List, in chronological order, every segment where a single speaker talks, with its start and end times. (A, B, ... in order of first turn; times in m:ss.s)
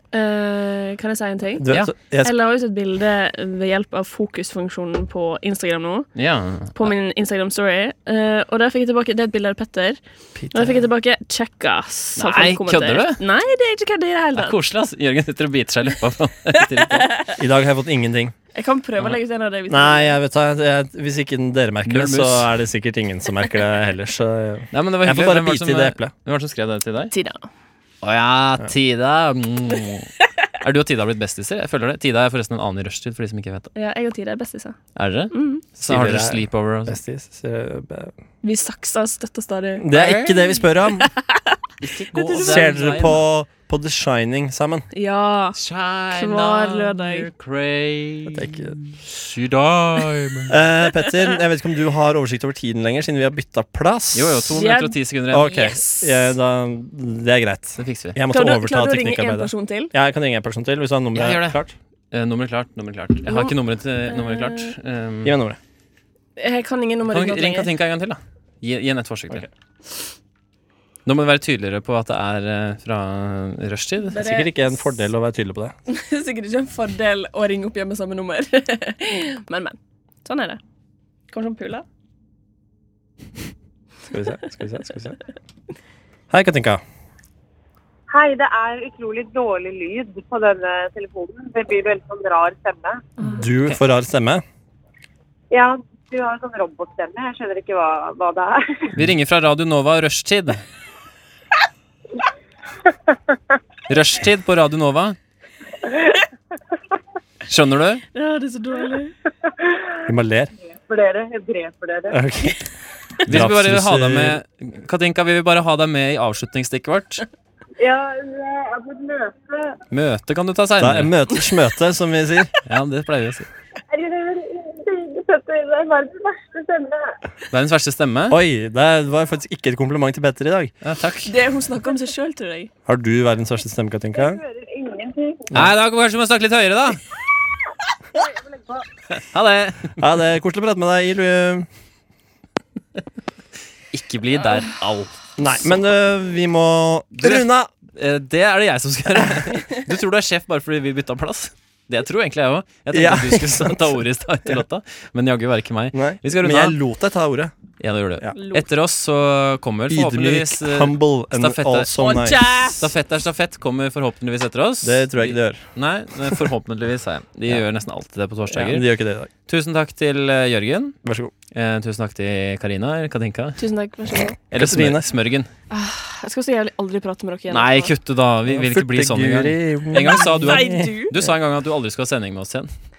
0:00.1-0:01.7 A
0:01.6-0:02.3 B
0:02.2-0:06.1 A
0:06.2-0:06.9 C
0:06.8-0:10.0 A
0:10.4-0:10.8 B
0:10.5-0:14.6 A
0:12.2-0:13.2 C
0:14.4-0:17.1 C
0:17.0-0:17.3 A
0:17.4-0:18.4 B
0:18.6-0:20.2 A
0:19.7-0:26.1 B
0:21.9-0:22.5 C
0:24.7-0:27.1 C
0:27.1-0:27.5 A
0:28.0-0:33.7 C
0:33.8-0:34.8 A
0:35.0-0:37.0 C
0:35.3-0:35.6 A
0:35.8-0:38.1 B
0:38.4-0:41.6 A
0:39.8-0:41.1 B
0:39.9-0:40.3 C
0:41.8-0:43.2 C
0:42.3-0:44.9 B
0:44.9-0:45.6 A
0:45.6-0:50.6 C
0:46.1-0:47.3 A
0:48.3-0:48.8 B
0:50.5-0:54.5 B
0:54.1-0:55.6 C
0:54.5-0:56.2 A
0:55.3-1:01.7 B
0:57.8-0:58.2 C
0:58.3-0:59.9 A
1:01.2-1:01.6 C
1:02.1-1:05.4 C
1:03.3-1:03.5 A
1:04.1-1:04.7 A
1:05.2-1:05.6 B
1:06.4-1:07.7 A
1:07.1-1:09.5 C
1:11.1-1:14.2 C
1:14.1-1:14.8 A
1:14.2-1:15.8 B
1:15.9-1:20.6 A
1:21.3-1:21.8 A
1:24.1-1:25.2 B
1:26.3-1:26.8 B
1:28.1-1:33.0 D
1:33.2-1:34.4 B
1:35.5-1:38.9 D
1:39.0-1:40.6 C
1:42.9-1:43.1 D
1:43.9-1:45.2 C
1:47.5-1:48.0 C
1:48.1-1:49.1 A
1:49.4-1:50.0 D
1:50.1-1:50.5 B
1:50.8-1:52.2 D
1:52.1-1:52.6 B
1:53.3-1:54.4 B
1:53.3-1:57.2 C
1:57.8-1:59.8 D
1:59.9-2:01.1 C
2:00.8-2:02.5 B
2:02.7-2:03.5 C
2:03.9-2:07.2 D
2:07.5-2:08.4 C
2:08.3-2:10.7 B
2:10.8-2:11.3 C
2:11.3-2:12.7 A
2:12.9-2:14.4 B
2:14.1-2:15.5 D
2:15.5-2:17.0 C
2:18.2-2:18.8 D
2:19.2-2:20.0 C
2:20.0-2:21.7 B
2:23.9-2:25.1 C
2:25.4-2:27.7 B
2:27.2-2:36.8 C
2:32.9-2:34.0 B
2:35.9-2:37.5 B
2:37.8-2:41.9 C
2:38.3-2:38.6 A
2:39.9-2:42.5 B
2:42.0-2:42.8 A
2:42.6-2:48.9 C
2:44.8-2:45.6 B
2:48.5-2:49.3 B
2:49.5-2:51.0 C
2:51.0-2:51.3 B
2:51.5-2:53.6 C
2:53.6-2:54.4 A
2:54.5-2:55.0 B
2:54.5-2:55.5 C
2:55.7-2:57.9 A
2:57.5-3:02.7 C
2:58.5-3:01.3 B
3:00.4-3:01.1 A